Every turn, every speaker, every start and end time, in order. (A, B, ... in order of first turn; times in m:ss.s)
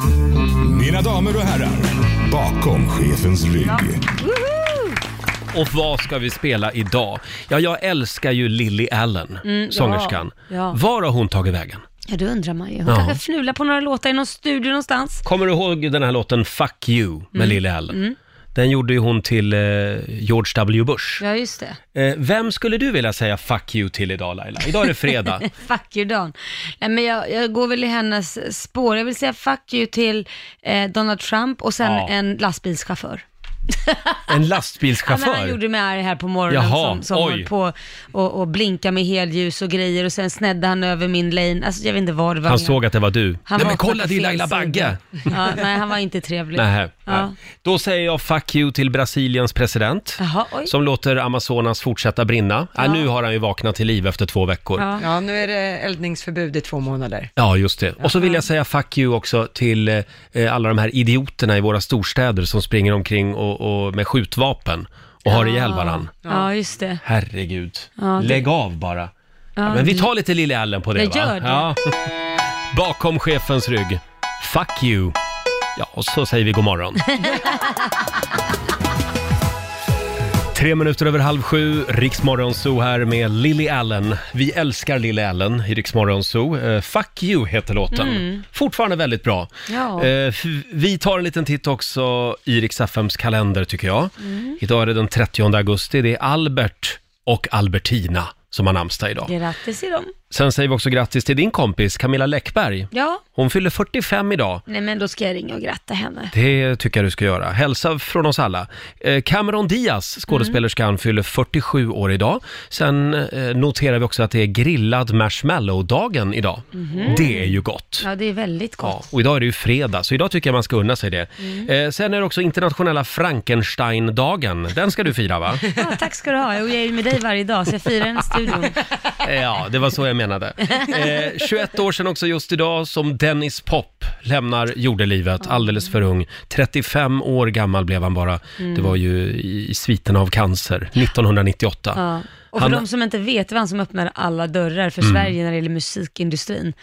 0:00.6-0:04.1 A
0:03.7-0:05.0 B
0:05.5-0:11.8 C
0:09.4-0:10.8 B
0:12.1-0:15.2 B
0:12.8-0:13.2 C
0:15.2-0:18.0 C
0:17.3-0:18.2 B
0:18.5-0:21.2 C
0:21.2-0:21.8 B
0:21.9-0:25.5 C
0:24.8-0:34.2 B
0:31.8-0:32.1 C
0:34.3-0:35.6 C
0:35.0-0:42.8 B
0:36.5-0:37.5 C
0:42.4-0:45.3 C
0:43.4-0:47.3 B
0:46.5-0:54.9 C
0:50.2-0:50.7 B
0:52.8-0:53.1 B
0:54.8-0:55.1 B
0:55.0-0:57.3 D
0:57.4-1:06.1 C
1:05.3-1:07.0 B
1:07.0-1:09.1 C
1:08.0-1:08.4 B
1:09.6-1:10.1 B
1:09.6-1:12.0 C
1:10.9-1:11.7 B
1:12.7-1:15.2 C
1:15.8-1:17.2 C
1:17.1-1:17.8 B
1:20.5-1:39.3 C
1:27.9-1:28.4 B
1:29.7-1:30.1 B
1:34.2-1:34.6 B
1:39.2-1:40.1 B
1:40.3-1:44.6 C
1:42.9-1:43.2 B
1:44.7-1:46.3 B
1:46.3-1:58.1 C
1:50.3-1:50.6 B
1:56.7-1:59.0 B
1:58.8-2:05.6 C
2:01.4-2:01.7 B
2:05.8-2:08.8 B
2:09.2-2:22.0 C
2:10.7-2:11.2 B
2:18.6-2:18.9 B
2:21.9-2:26.7 B
2:22.6-2:22.8 C
2:25.0-2:25.3 C